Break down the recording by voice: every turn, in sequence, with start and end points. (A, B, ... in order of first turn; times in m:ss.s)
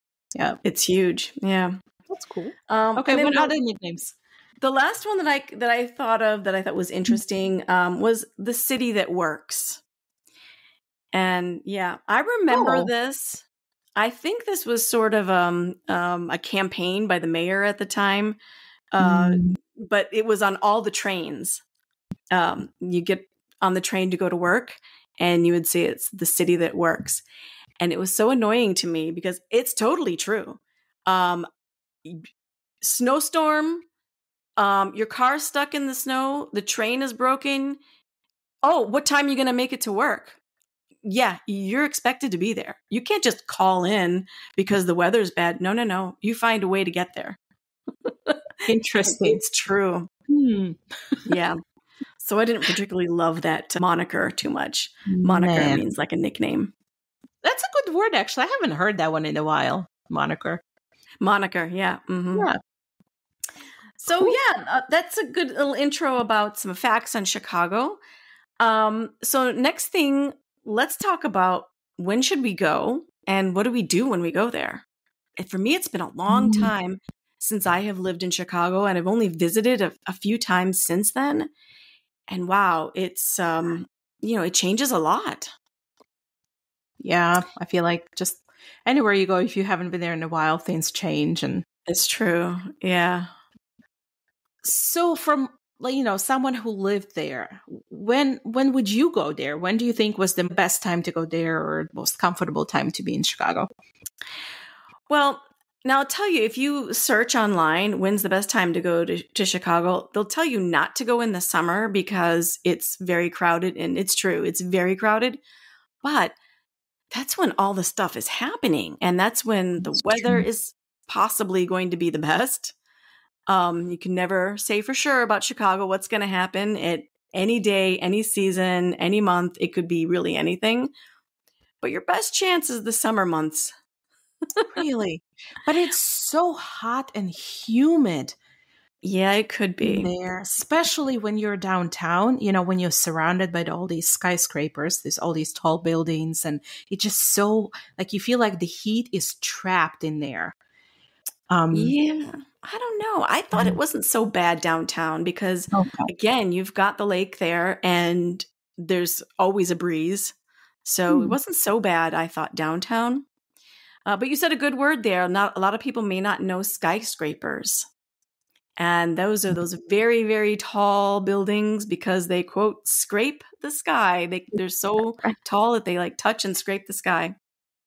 0:00.6-0:01.8 A
0:02.1-0:04.2 B
0:02.7-0:03.5 A
0:04.6-0:09.8 A
0:11.1-0:13.4 A
0:12.5-0:12.9 B
0:14.0-0:18.4 A
0:18.9-0:21.6 A
0:19.0-0:19.6 B
0:22.3-0:27.2 A
0:27.8-0:31.5 A
0:32.8-0:33.8 A
0:34.6-0:37.8 A
0:38.6-0:40.4 A
0:41.0-0:47.4 A
0:48.7-0:49.4 B
0:49.1-0:50.1 A
0:50.3-0:51.2 B
0:51.3-0:51.6 A
0:52.2-0:56.7 A
0:55.1-0:55.8 B
0:57.4-1:00.6 B
1:01.2-1:02.5 A
1:02.3-1:02.6 B
1:04.0-1:08.0 A
1:04.1-1:04.4 B
1:08.6-1:14.8 A
1:15.4-1:21.5 A
1:16.3-1:16.7 B
1:22.3-1:25.5 A
1:27.0-1:31.6 B
1:31.9-1:33.3 A
1:34.6-1:43.7 B
1:45.1-1:55.4 A
1:56.0-1:56.4 A
1:57.1-2:02.8 A
1:59.8-2:00.4 B
2:03.5-2:10.9 A
2:11.8-2:13.7 A
2:14.7-2:18.4 B
2:19.0-2:20.1 A
2:19.8-2:30.6 B
2:31.5-2:31.9 B
2:31.7-2:43.3 A
2:35.7-2:36.1 B
2:41.1-2:41.4 B
2:44.1-2:47.9 A
2:48.8-2:57.4 A